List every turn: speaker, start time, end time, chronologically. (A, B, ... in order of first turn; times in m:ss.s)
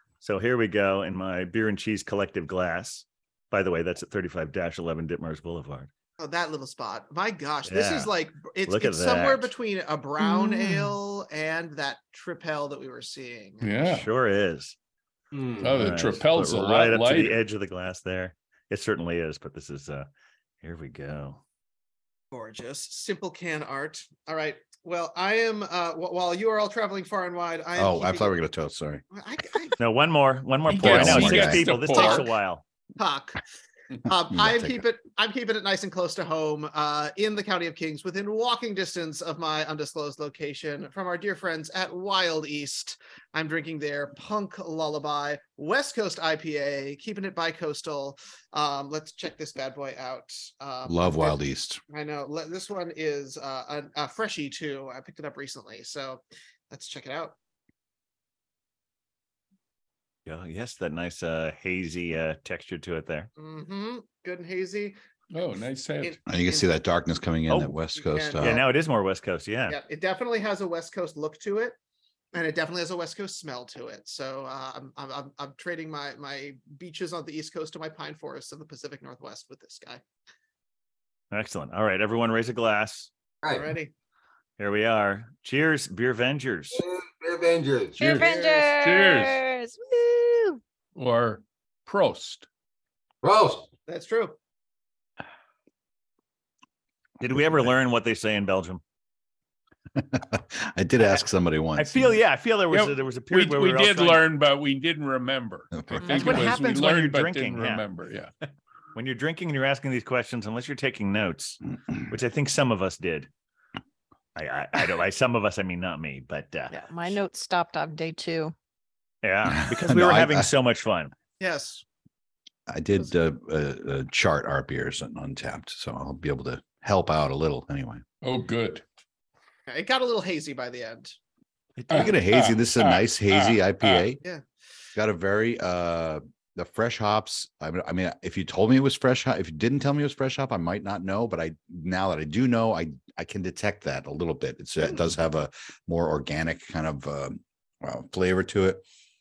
0:00.2-0:05.9 A
0:06.2-0:13.7 B
0:07.7-0:08.1 A
0:08.6-0:09.5 A
0:10.2-0:11.0 C
0:13.6-0:14.1 D
0:13.8-0:14.8 A
0:15.3-0:15.7 E
0:15.6-0:17.4 D
0:15.6-0:20.1 A
0:20.6-0:21.4 A
0:22.3-0:28.4 B
0:27.8-0:29.0 F
0:29.1-0:29.8 B
0:29.8-0:32.6 A
0:30.7-0:32.3 D
0:30.8-0:31.6 F
0:31.9-0:32.2 B
0:33.0-0:33.4 B
0:34.1-0:57.4 B
0:34.3-0:34.8 F
0:50.9-0:51.8 F
1:00.3-1:03.3 A
1:03.4-1:05.0 B
1:05.3-1:06.2 D
1:06.0-1:06.7 B
1:06.3-1:08.6 F
1:07.5-1:07.8 A
1:08.0-1:08.6 B
1:08.4-1:09.8 A
1:09.7-1:11.8 B
1:12.3-1:20.0 B
1:21.3-1:23.1 A
1:23.4-1:23.7 E
1:23.5-1:23.9 B
1:24.6-1:26.8 A
1:26.7-1:28.2 E
1:28.0-1:30.6 C
1:28.0-1:29.4 D
1:28.2-1:28.7 B
1:31.0-1:32.4 D
1:33.2-1:33.7 E
1:33.9-1:34.4 B
1:37.2-1:38.8 A
1:40.0-1:42.1 F
1:41.8-1:44.2 A
1:42.7-1:48.3 D
1:45.7-1:46.5 F
1:46.1-1:47.9 A
1:46.1-1:46.4 C
1:48.4-1:53.3 A
1:54.4-1:56.8 A
1:56.7-1:58.5 C
1:59.2-2:01.1 A
1:59.5-2:00.5 F
2:01.4-2:01.8 B
2:02.7-2:08.0 F
2:08.2-2:08.8 D
2:09.7-2:11.2 B
2:11.8-2:12.2 A
2:11.9-2:14.1 D
2:11.9-2:14.2 F
2:15.0-2:28.8 F